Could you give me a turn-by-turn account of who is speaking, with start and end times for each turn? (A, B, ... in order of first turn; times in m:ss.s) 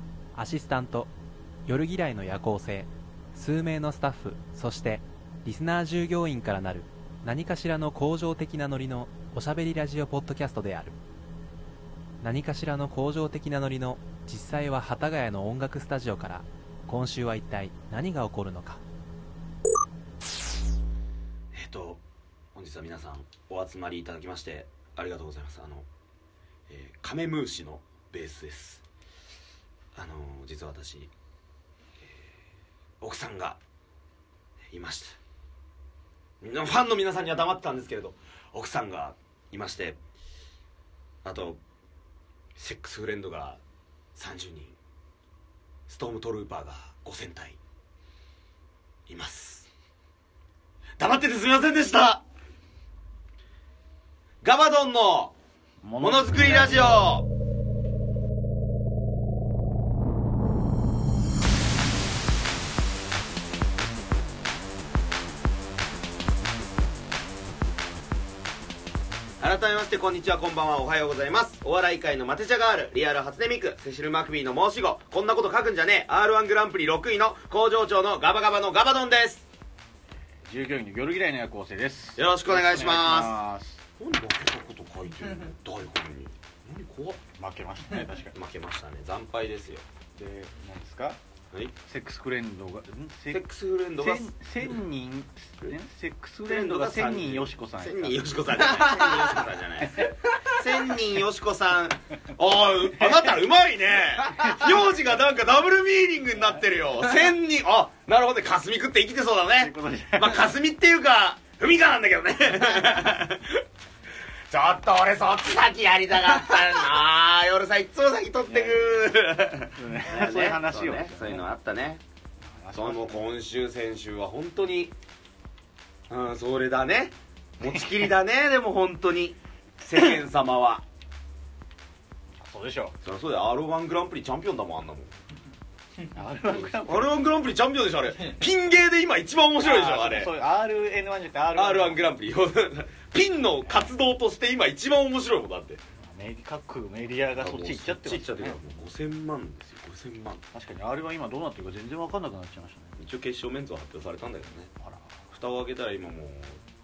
0:00.4-0:01.1 A
0:01.7-0:11.0 A
0:12.2-0:18.8 A
0:21.5-0:22.0 B
0:22.6-0:25.9 B
0:26.7-0:28.8 B
0:30.0-0:31.1 B
0:32.0-0:32.2 B
0:33.0-0:33.6 B
0:34.7-0:35.2 B
0:36.4-0:40.0 B
0:41.2-0:41.6 B
0:42.6-0:43.6 B
0:44.2-0:44.8 B
0:45.9-0:47.6 B
0:49.1-0:49.7 B
0:51.0-0:52.2 B
0:54.4-0:55.3 B
0:55.8-0:57.1 C
0:56.0-0:57.3 B
1:09.4-1:19.5 B
1:20.5-1:23.8 C
1:22.2-1:23.4 B
1:24.0-1:27.2 B
1:27.4-1:28.3 C
1:28.3-1:29.8 B
1:30.2-1:31.2 C
1:31.9-1:33.5 C
1:33.3-1:34.7 B
1:34.0-1:38.2 C
1:36.5-1:53.6 B
1:43.0-1:43.4 C
1:44.4-1:44.8 C
1:49.6-1:50.5 C
1:54.5-2:02.0 B
1:58.5-1:59.1 C
1:59.8-2:01.5 C
2:02.5-2:03.3 C
2:02.7-2:05.0 B
2:06.1-2:10.8 B
2:12.4-2:13.0 C
2:13.0-2:15.1 B
2:16.1-2:17.2 C
2:16.5-2:20.3 B
2:19.6-2:22.1 C
2:21.6-2:25.8 B
2:23.7-2:23.9 C
2:26.0-2:28.6 C
2:27.4-2:30.4 B
2:30.5-2:33.0 C
2:33.0-2:34.7 B
2:34.8-2:35.2 C
2:35.3-2:36.6 B